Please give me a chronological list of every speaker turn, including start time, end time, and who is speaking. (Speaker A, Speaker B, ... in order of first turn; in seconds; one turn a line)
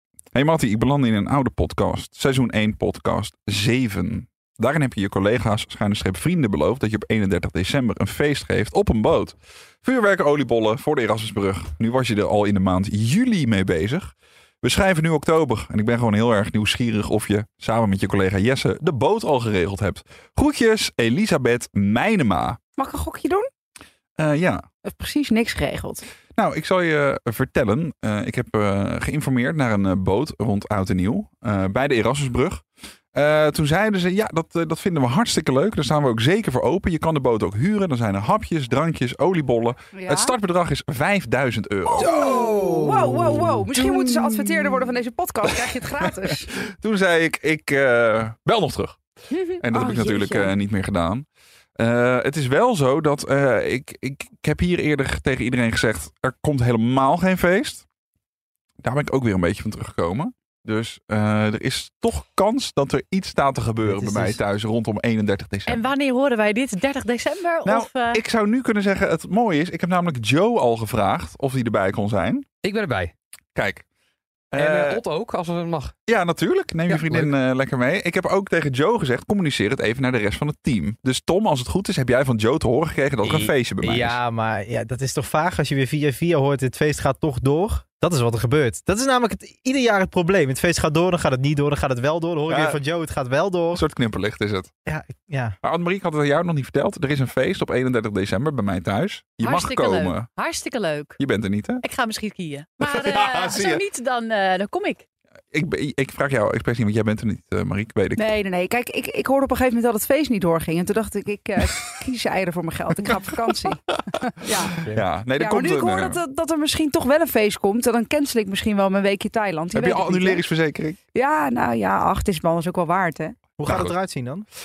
Speaker A: 0.3-22.6
Speaker B: 22.8-23.5
Speaker A: 24.2-24.6
Speaker B: 24.8-26.0
Speaker A: 26.4-42.2
Speaker B: 39.9-40.4
Speaker B: 41.9-46.5
Speaker C: 42.0-43.7
Speaker A: 43.9-44.8
Speaker A: 45.5-49.0
Speaker B: 49.3-50.5
Speaker A: 49.6-51.2
Speaker A: 51.8-57.8
Speaker A: 58.8-65.8
Speaker C: 63.8-64.4
Speaker D: 65.7-68.2
Speaker A: 67.6-72.5
Speaker E: 72.6-73.1
Speaker A: 73.5-73.8
Speaker A: 74.5-75.0
Speaker E: 74.5-75.9
Speaker A: 76.1-84.2
Speaker E: 76.9-77.3
Speaker E: 83.2-83.5
Speaker C: 83.8-93.8
Speaker A: 92.5-92.8
Speaker A: 93.7-94.7
Speaker C: 94.8-95.5
Speaker A: 95.6-100.3
Speaker D: 99.4-101.2
Speaker A: 101.2-101.8
Speaker D: 101.8-105.0
Speaker A: 102.8-103.8
Speaker A: 105.5-108.3
Speaker B: 108.2-114.8
Speaker A: 113.1-113.7
Speaker A: 114.9-116.2
Speaker B: 115.4-120.4
Speaker A: 119.7-121.0
Speaker B: 121.1-123.4
Speaker C: 123.6-124.5
Speaker A: 123.7-123.9